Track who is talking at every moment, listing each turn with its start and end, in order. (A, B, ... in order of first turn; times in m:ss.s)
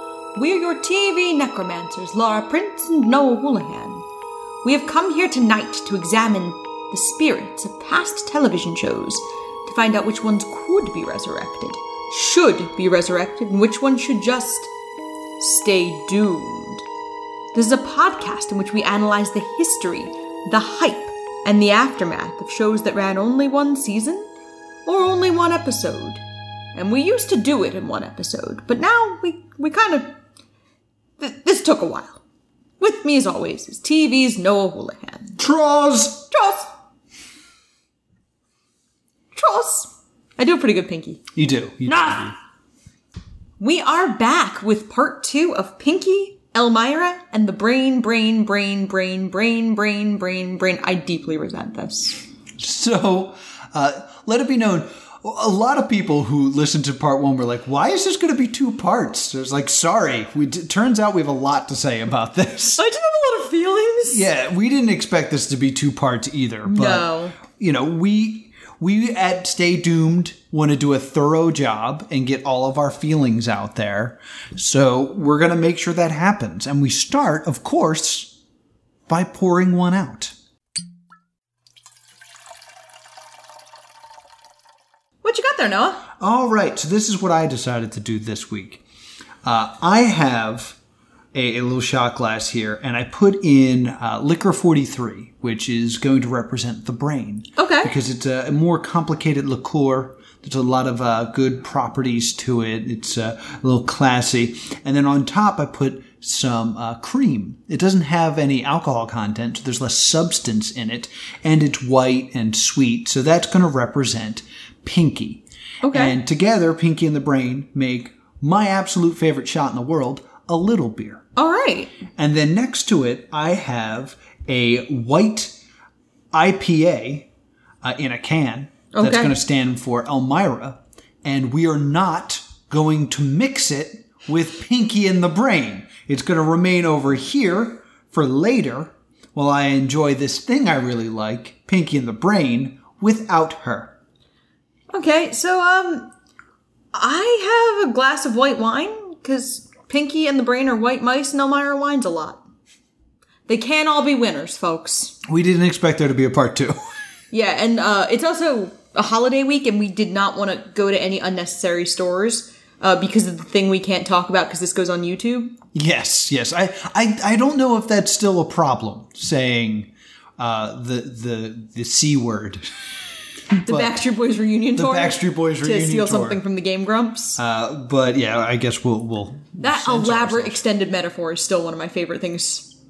0:00.3-0:04.0 A
0:04.6-0:14.7 A
0:15.4-0:16.8 A
0:17.5-0:24.3 A
0:24.8-0:26.2 A
0:26.7-0:30.1 A
0:31.2-0:32.2 A
0:32.8-0:35.4 A
0:35.4-0:36.3 B
0:36.3-0:36.7 A
0:39.3-0:41.2 A
0:41.3-0:42.3 B
0:41.9-0:42.3 A
0:43.6-0:52.2 A
0:52.6-1:02.8 B
1:02.8-1:04.2 A
1:04.1-1:18.3 B
1:06.6-1:07.4 A
1:19.1-1:20.3 B
1:25.2-1:26.0 A
1:26.2-1:28.8 B
1:29.4-1:30.8 B
1:31.3-2:01.2 B
1:37.6-1:37.9 A
1:55.8-1:56.2 A
2:01.4-2:01.9 A
2:02.2-2:05.5 B
2:06.3-2:07.3 B
2:07.8-2:23.9 B
2:08.9-2:09.3 A
2:24.9-2:26.1 A
2:26.9-2:32.4 A
2:33.5-2:35.2 A
2:35.2-2:36.8 B
2:37.3-2:45.6 A
2:45.7-2:52.6 B
2:53.5-2:57.4 A
2:53.6-2:54.0 B
2:54.7-2:56.4 B
2:57.4-3:00.6 B
2:59.6-3:02.7 A